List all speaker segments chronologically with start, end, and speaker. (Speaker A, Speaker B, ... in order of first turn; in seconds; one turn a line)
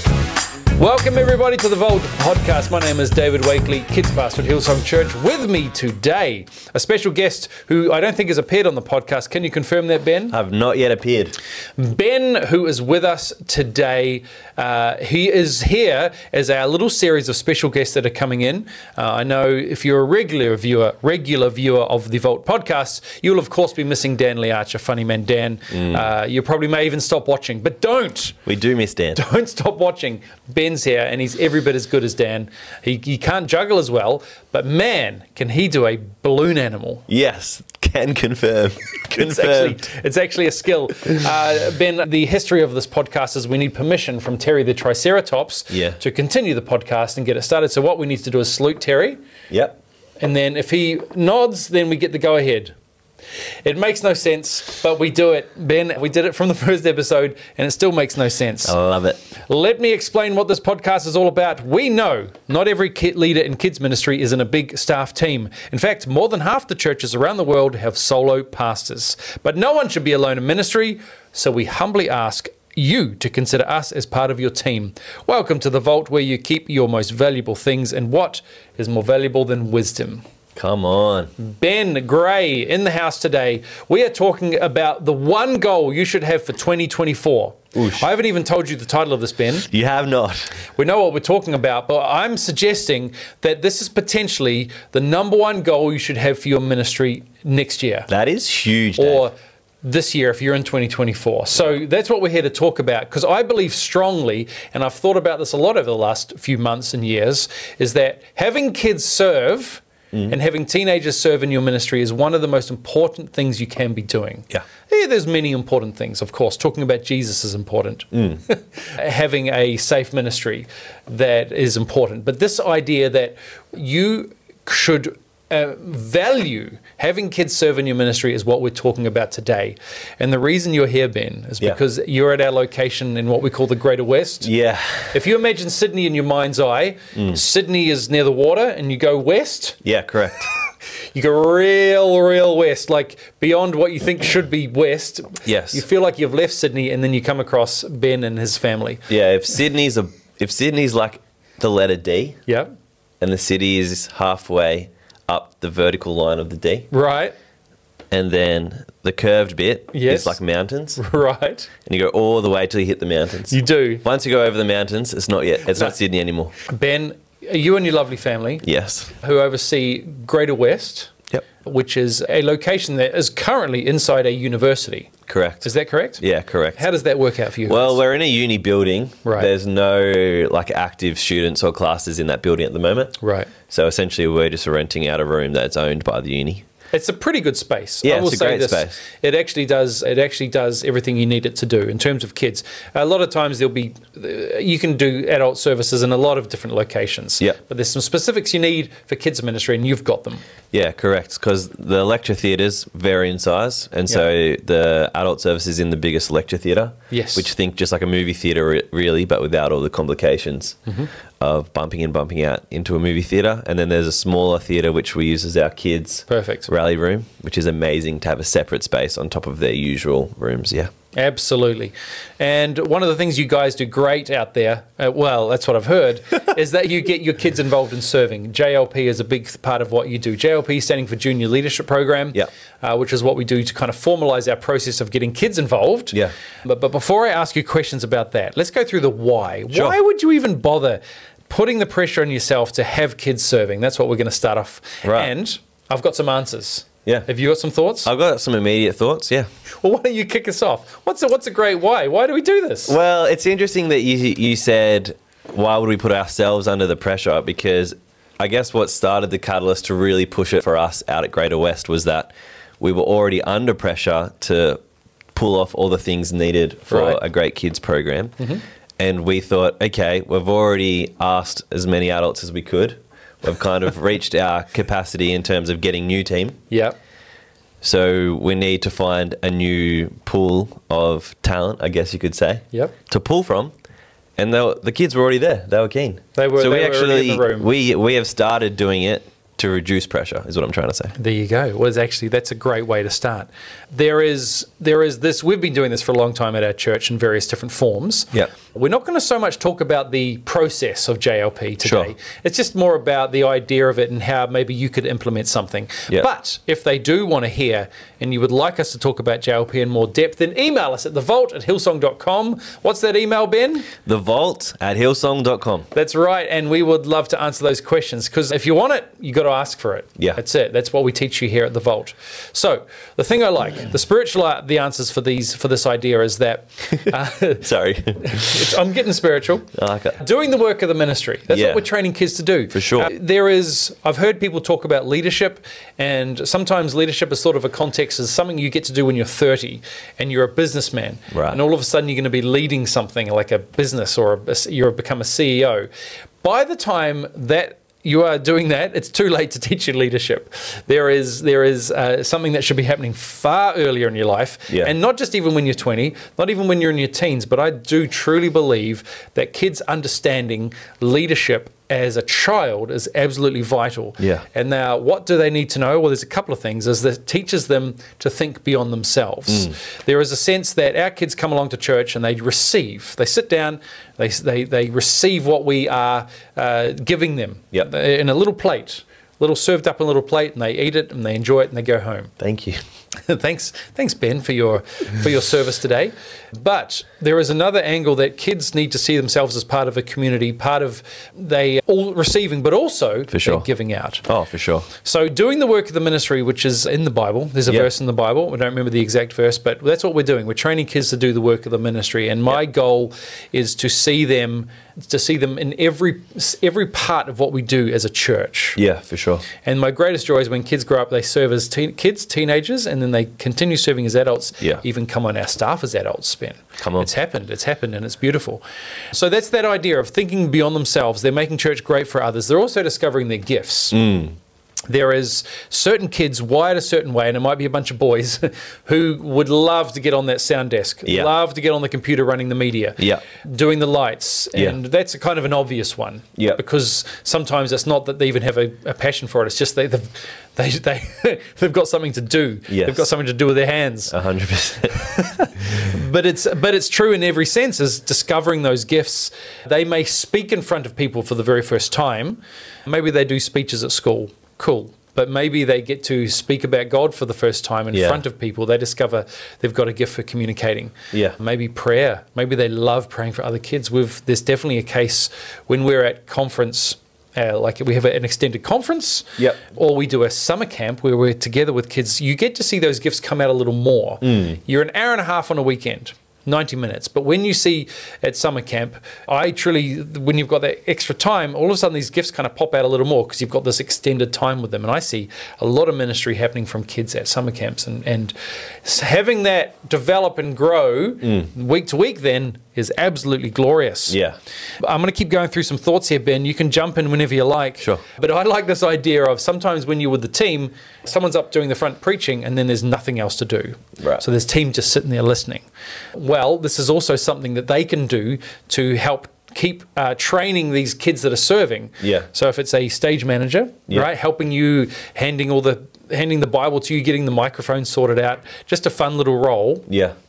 Speaker A: 0.8-10.3
Speaker B: 10.3-11.3
Speaker A: 11.8-28.4
Speaker B: 25.7-26.0
Speaker B: 28.4-29.2
Speaker A: 29.1-37.0
Speaker B: 37.1-39.8
Speaker A: 39.1-49.2
Speaker B: 45.7-46.0
Speaker B: 49.5-49.8
Speaker A: 50.2-52.7
Speaker A: 53.6-58.7
Speaker B: 58.6-59.2
Speaker A: 59.5-80.2
Speaker B: 80.5-81.3
Speaker A: 81.4-89.7
Speaker B: 87.8-88.0
Speaker B: 89.7-90.6
Speaker A: 90.8-98.1
Speaker B: 98.1-99.2
Speaker A: 99.0-134.5
Speaker B: 118.1-118.4
Speaker B: 134.4-135.1
Speaker A: 135.1-139.8
Speaker B: 139.8-140.5
Speaker A: 141.1-149.1
Speaker B: 145.4-145.8
Speaker B: 149.1-152.4
Speaker B: 153.2-156.9
Speaker A: 156.9-157.3
Speaker B: 158.1-161.0
Speaker A: 159.9-160.4
Speaker A: 160.9-161.7
Speaker B: 161.8-166.5
Speaker A: 163.5-164.0
Speaker A: 166.7-168.6
Speaker B: 168.6-169.1
Speaker A: 169.2-176.2
Speaker B: 175.3-175.7
Speaker B: 176.2-176.8
Speaker A: 176.8-178.0
Speaker B: 177.7-183.2
Speaker A: 179.2-179.5
Speaker A: 183.2-183.5
Speaker B: 183.7-186.6
Speaker A: 186.9-200.4
Speaker B: 188.0-189.0
Speaker B: 200.7-210.8
Speaker A: 207.1-207.4
Speaker B: 211.4-220.9
Speaker A: 216.3-216.7
Speaker A: 221.1-248.1
Speaker B: 245.0-245.3
Speaker B: 248.0-249.5
Speaker A: 249.8-252.9
Speaker B: 252.9-264.8
Speaker B: 265.3-268.4
Speaker A: 266.9-267.2
Speaker B: 269.0-276.6
Speaker A: 276.7-276.9
Speaker B: 277.8-283.7
Speaker B: 284.4-291.1
Speaker A: 286.4-287.7
Speaker A: 291.1-313.9
Speaker B: 301.8-302.1
Speaker B: 314.0-315.9
Speaker A: 315.9-345.9
Speaker B: 327.6-328.7
Speaker B: 329.7-330.2
Speaker B: 331.5-331.8
Speaker B: 332.7-333.1
Speaker B: 341.3-341.6
Speaker A: 346.4-382.3
Speaker B: 364.2-364.4
Speaker B: 382.4-382.8
Speaker A: 383.1-394.2
Speaker B: 393.3-393.6
Speaker B: 394.2-394.9
Speaker A: 395.0-408.8
Speaker B: 408.8-409.4
Speaker A: 409.6-424.0
Speaker B: 416.8-417.1
Speaker B: 423.9-424.3
Speaker A: 424.9-444.1
Speaker B: 431.0-431.3
Speaker B: 442.7-443.1
Speaker B: 444.1-445.0
Speaker A: 444.9-494.2
Speaker B: 457.9-458.2
Speaker B: 474.2-474.6
Speaker B: 494.1-494.4
Speaker A: 494.8-505.6
Speaker B: 504.0-504.2
Speaker A: 506.1-519.9
Speaker B: 512.0-512.3
Speaker B: 519.9-520.1